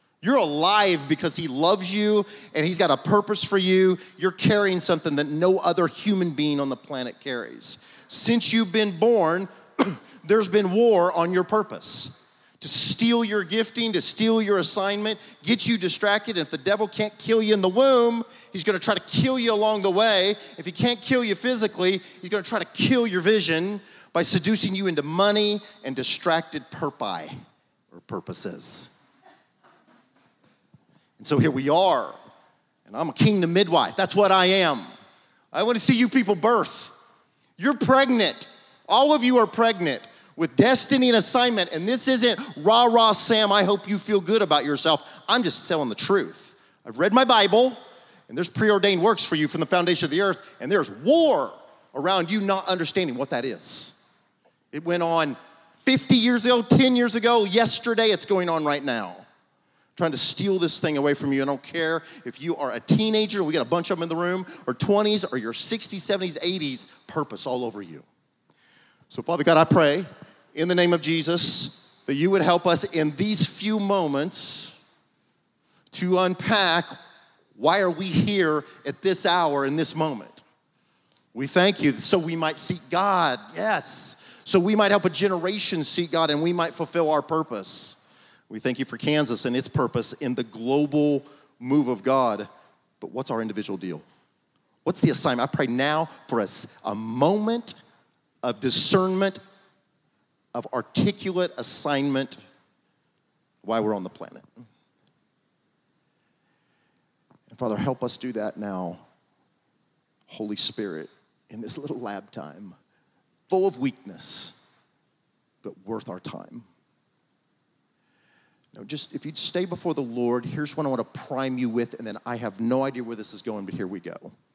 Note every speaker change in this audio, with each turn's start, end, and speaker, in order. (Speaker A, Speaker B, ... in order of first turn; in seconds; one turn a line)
Speaker A: 0.2-27.3
Speaker A: 27.9-29.0
Speaker A: 31.2-32.2
Speaker A: 32.9-34.9
Speaker A: 35.5-37.0
Speaker A: 37.6-47.8
Speaker A: 48.3-54.0
Speaker A: 54.7-59.3
Speaker A: 60.0-68.1
Speaker A: 69.1-74.8
Speaker A: 75.9-77.0
Speaker A: 77.6-80.4
Speaker A: 81.3-92.5
Speaker A: 93.0-94.0
Speaker A: 94.8-97.8
Speaker A: 98.4-99.4
Speaker A: 100.5-102.4
Speaker A: 103.6-104.5
Speaker A: 107.5-109.0
Speaker A: 110.3-112.8
Speaker A: 113.5-114.6
Speaker A: 115.6-116.7
Speaker A: 118.7-124.3